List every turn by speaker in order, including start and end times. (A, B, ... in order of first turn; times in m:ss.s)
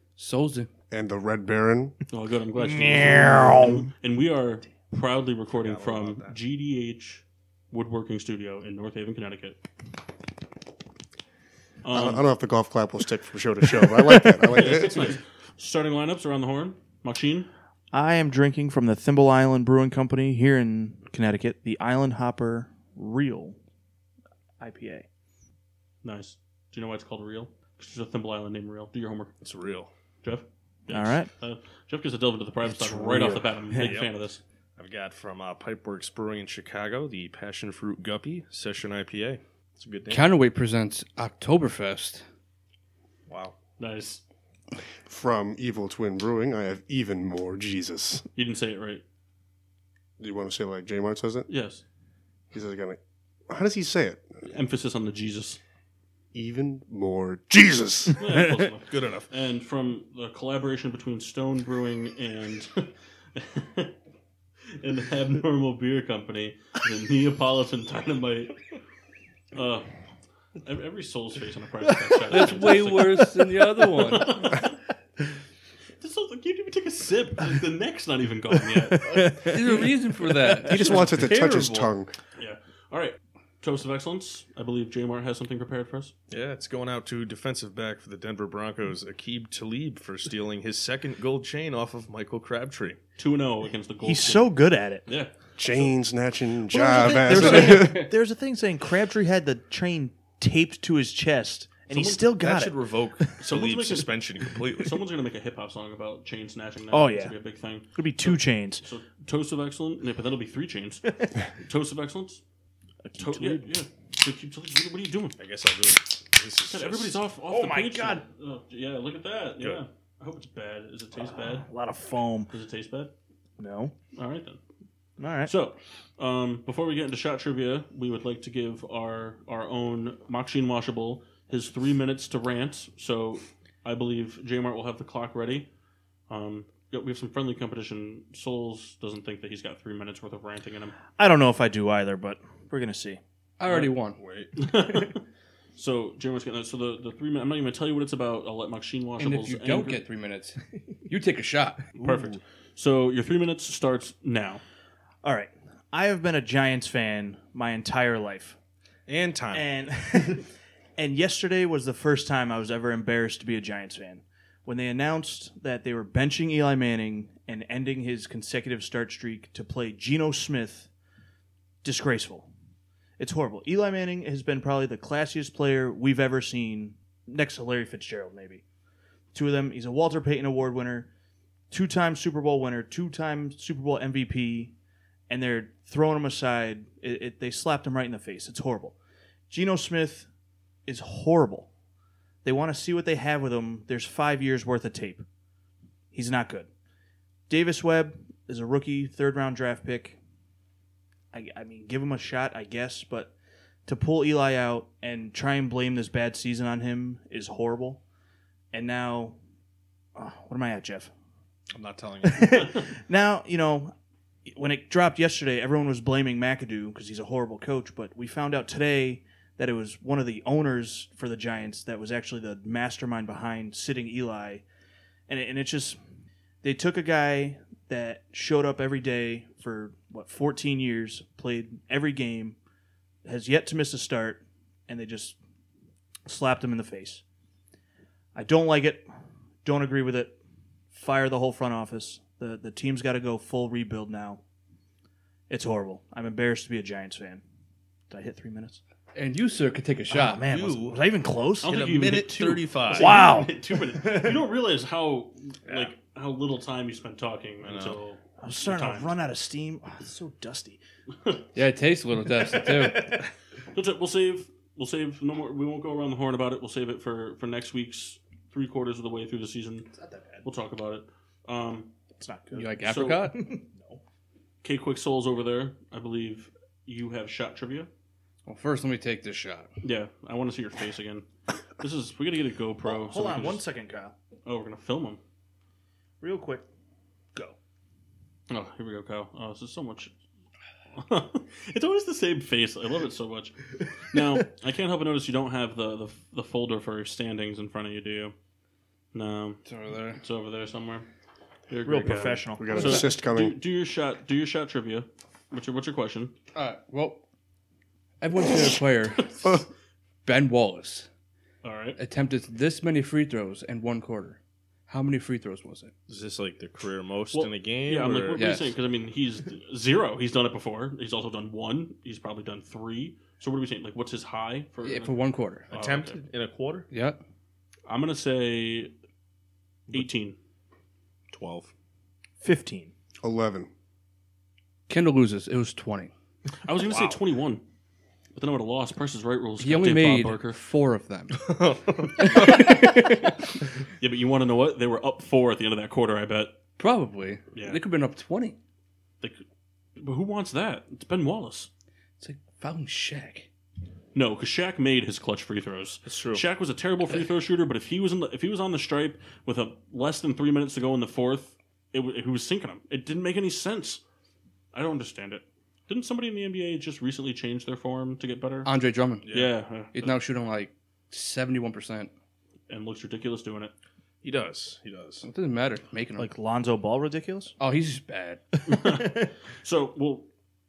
0:00.2-0:00.7 A
0:00.9-0:02.0 B
0:02.1-0:09.6 C
0:02.6-0:03.9 D
0:05.5-0:06.4 E
0:11.8-0:12.3 C
0:11.9-0:15.2 B
0:14.5-0:17.5 C
0:17.9-0:23.6 D
0:24.6-0:25.1 D
0:26.0-0:29.3 C
0:29.4-0:29.9 E
0:30.2-0:34.4 C
0:30.9-0:31.3 D
0:32.7-0:33.9 D
0:33.8-0:34.1 E
0:34.8-0:40.3 E
0:40.1-0:42.2 A
0:43.3-0:43.6 E
0:43.8-0:44.2 C
0:45.0-0:48.2 B
0:48.3-0:49.0 C
0:50.2-0:51.5 B
0:51.5-0:51.8 C
0:52.5-0:54.2 B
0:54.4-0:55.6 C
0:56.3-0:58.4 B
0:58.2-1:04.0 C
0:58.9-0:59.3 E
1:04.7-1:08.6 C
1:09.5-1:09.9 C
1:10.6-1:14.8 C
1:12.3-1:14.4 A
1:12.3-1:13.4 D
1:16.0-1:19.4 C
1:19.0-1:21.9 D
1:19.4-1:21.4 A
1:20.6-1:22.1 B
1:22.4-1:26.1 C
1:26.3-1:33.0 E
1:33.2-1:35.9 C
1:34.0-1:35.1 D
1:35.6-1:38.1 B
1:36.7-1:43.4 D
1:41.9-1:45.0 E
1:43.4-1:44.1 C
1:44.8-1:52.4 C
1:46.9-1:47.4 D
1:47.9-1:48.8 D
1:53.0-1:53.7 D
1:53.2-1:55.4 C
1:55.4-1:57.2 E
1:56.7-2:01.7 C
1:57.5-1:58.2 D
2:01.3-2:02.5 D
2:02.5-2:03.1 C
2:03.6-2:03.9 D
2:04.1-2:04.6 C
2:05.2-2:05.5 D
2:05.4-2:15.7 C
2:16.3-2:21.0 C
2:21.2-2:23.2 D
2:23.6-2:24.2 A
2:24.2-2:24.5 E
2:24.6-2:25.2 C
2:25.8-2:30.0 C
2:29.2-2:31.8 A
2:31.9-2:32.4 D
2:32.0-2:34.6 C
2:35.2-2:38.6 D
2:39.1-2:39.6 E
2:39.5-2:50.9 D
2:51.8-2:52.5 D
2:53.2-2:58.6 D
2:59.3-3:01.1 D
3:01.7-3:04.7 D
3:05.3-3:09.0 D
3:09.5-3:10.3 D
3:10.8-3:11.7 D
3:12.4-3:15.2 D
3:16.1-3:16.7 D
3:17.5-3:20.2 D
3:21.3-3:23.3 D
3:23.9-3:28.0 D
3:28.7-3:29.4 D
3:30.2-3:31.1 D
3:31.7-3:32.6 E
3:32.2-3:33.9 D
3:34.5-3:44.6 D
3:45.3-3:46.0 D
3:46.6-3:52.6 D
3:53.2-3:55.4 D
3:56.2-3:57.2 D
3:58.3-3:59.1 D
3:59.6-4:00.3 D
4:00.9-4:04.4 D
4:05.5-4:07.4 D
4:08.1-4:08.8 D
4:09.1-4:10.5 A
4:10.1-4:11.7 D
4:10.5-4:10.9 E
4:11.6-4:19.1 C
4:11.6-4:13.3 E
4:12.9-4:14.4 D
4:17.6-4:18.0 E
4:18.4-4:20.8 D
4:21.5-4:23.1 A
4:22.4-4:23.2 D
4:23.7-4:29.9 C
4:30.0-4:30.4 D
4:30.4-4:31.9 C
4:32.2-4:34.0 D
4:32.5-4:33.4 A
4:32.8-4:33.3 C
4:34.6-4:37.9 C
4:38.4-4:39.7 A
4:39.8-4:41.2 C
4:41.8-4:43.6 C
4:42.8-4:44.1 D
4:44.4-4:45.2 C
4:46.2-4:46.6 D
4:48.5-4:50.1 C
4:50.9-4:53.6 C
4:54.1-4:58.3 C
4:59.1-4:59.6 C
4:59.6-5:00.2 A
5:00.1-5:01.1 C
5:01.7-5:06.3 C
5:01.9-5:03.1 D
5:02.6-5:03.6 B
5:06.5-5:07.2 A
5:08.2-5:09.6 A
5:10.2-5:11.1 A
5:11.6-5:12.0 C
5:12.0-5:15.9 A
5:16.1-5:18.5 E
5:17.3-5:26.2 C
5:18.3-5:18.8 A
5:24.8-5:25.7 A
5:25.7-5:26.9 E
5:26.9-5:27.2 A
5:27.9-5:28.9 C
5:29.9-5:30.4 C
5:31.3-5:31.7 E
5:32.4-5:32.9 D
5:33.2-5:33.7 B
5:34.9-5:36.1 A
5:36.6-5:37.6 C
5:36.8-5:37.2 E
5:38.3-5:40.6 C
5:39.6-5:41.6 A
5:41.3-5:42.8 E
5:42.2-5:43.3 A
5:44.0-5:46.6 C
5:46.8-5:48.6 A
5:47.5-5:47.8 C
5:50.0-5:51.7 C
5:52.2-5:53.5 A
5:54.1-6:04.0 C
5:56.0-5:56.4 E
6:04.7-6:08.7 C
6:08.6-6:09.3 A
6:09.2-6:09.5 E
6:09.3-6:10.2 C
6:09.9-6:12.1 A
6:12.7-6:13.7 C
6:14.2-6:15.3 E
6:15.2-6:16.3 A
6:16.2-6:17.6 D
6:17.6-6:18.4 A
6:18.7-6:20.3 C
6:18.8-6:19.3 D